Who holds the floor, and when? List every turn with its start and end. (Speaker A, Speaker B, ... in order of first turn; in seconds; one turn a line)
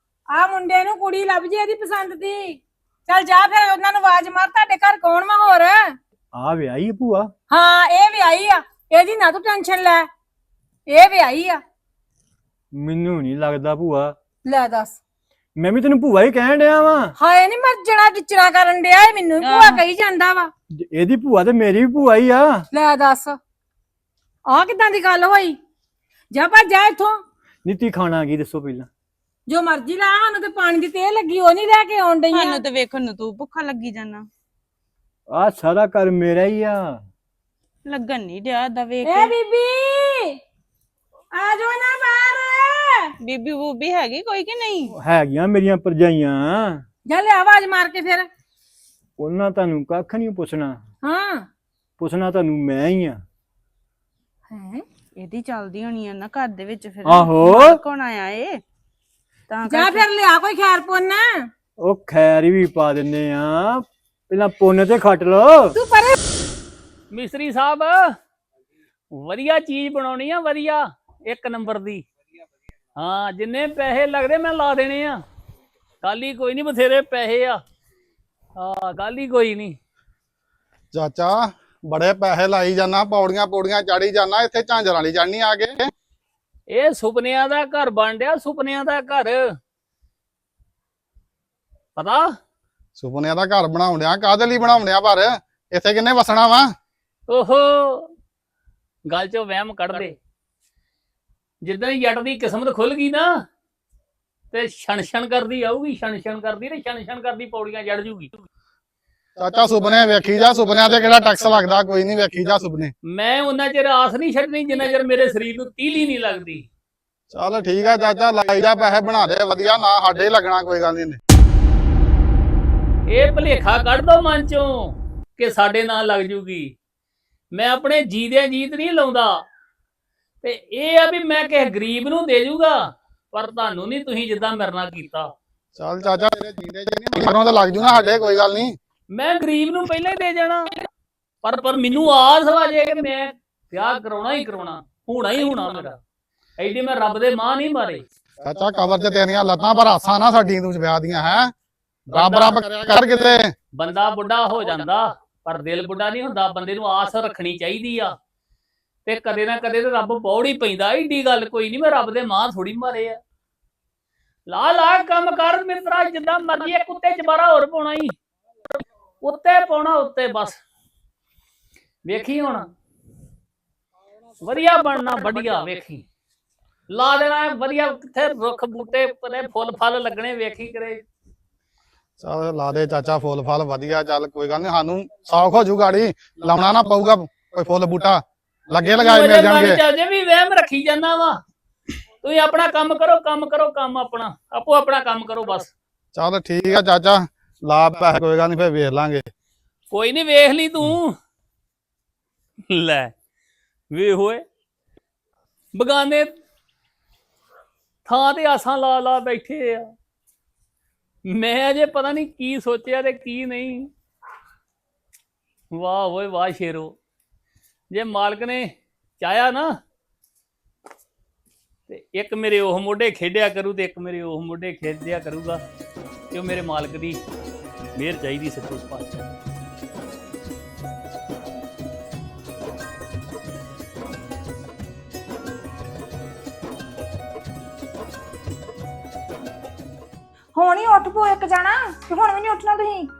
Speaker A: 0.3-6.0
Speaker B: 6.3-7.3
Speaker A: 7.5-10.1
Speaker A: 10.9-11.6
Speaker B: 12.7-14.1
Speaker A: 14.4-15.0
Speaker B: 15.6-17.1
Speaker A: 17.1-20.5
Speaker C: 19.4-19.8
Speaker B: 20.8-22.6
Speaker A: 22.7-23.4
Speaker A: 24.4-25.6
Speaker A: 26.3-27.2
Speaker B: 27.6-28.9
Speaker A: 29.5-32.6
Speaker C: 32.3-34.3
Speaker B: 35.3-37.0
Speaker C: 37.9-39.3
Speaker A: 39.0-40.4
Speaker A: 41.3-43.1
Speaker C: 43.2-44.9
Speaker B: 45.0-46.8
Speaker A: 47.0-48.3
Speaker B: 49.2-50.8
Speaker A: 51.0-51.5
Speaker B: 52.0-53.2
Speaker A: 54.5-54.8
Speaker C: 55.2-58.6
Speaker B: 57.0-57.8
Speaker C: 59.5-60.0
Speaker A: 59.6-61.5
Speaker B: 61.8-65.8
Speaker A: 65.7-66.2
Speaker D: 67.1-68.1
Speaker D: 69.1-72.0
Speaker D: 73.0-75.2
Speaker D: 76.0-77.6
Speaker D: 78.6-79.8
Speaker E: 80.9-85.9
Speaker D: 86.7-89.4
Speaker D: 92.0-92.3
Speaker E: 93.0-96.7
Speaker D: 97.3-98.1
Speaker D: 99.1-100.1
Speaker D: 101.6-103.3
Speaker D: 104.5-108.5
Speaker E: 109.4-112.9
Speaker D: 113.1-116.6
Speaker E: 117.3-121.2
Speaker D: 123.1-126.7
Speaker D: 127.5-129.4
Speaker D: 130.4-135.3
Speaker E: 135.8-138.8
Speaker D: 139.1-140.7
Speaker D: 141.4-145.9
Speaker D: 146.6-148.0
Speaker E: 148.4-151.5
Speaker E: 152.1-153.5
Speaker D: 152.1-152.6
Speaker D: 153.7-158.1
Speaker D: 159.1-163.2
Speaker D: 164.5-168.1
Speaker D: 169.2-170.6
Speaker D: 172.0-172.7
Speaker D: 174.4-176.0
Speaker D: 176.9-181.0
Speaker E: 182.2-189.8
Speaker D: 188.8-191.4
Speaker D: 192.2-195.7
Speaker E: 196.1-199.3
Speaker D: 199.9-201.1
Speaker D: 202.7-203.1
Speaker D: 203.9-204.4
Speaker D: 205.7-206.3
Speaker D: 208.1-209.9
Speaker D: 211.3-213.9
Speaker D: 215.7-216.9
Speaker D: 217.9-219.7
Speaker D: 221.9-225.6
Speaker D: 226.3-227.2
Speaker D: 227.9-229.2
Speaker F: 240.5-243.1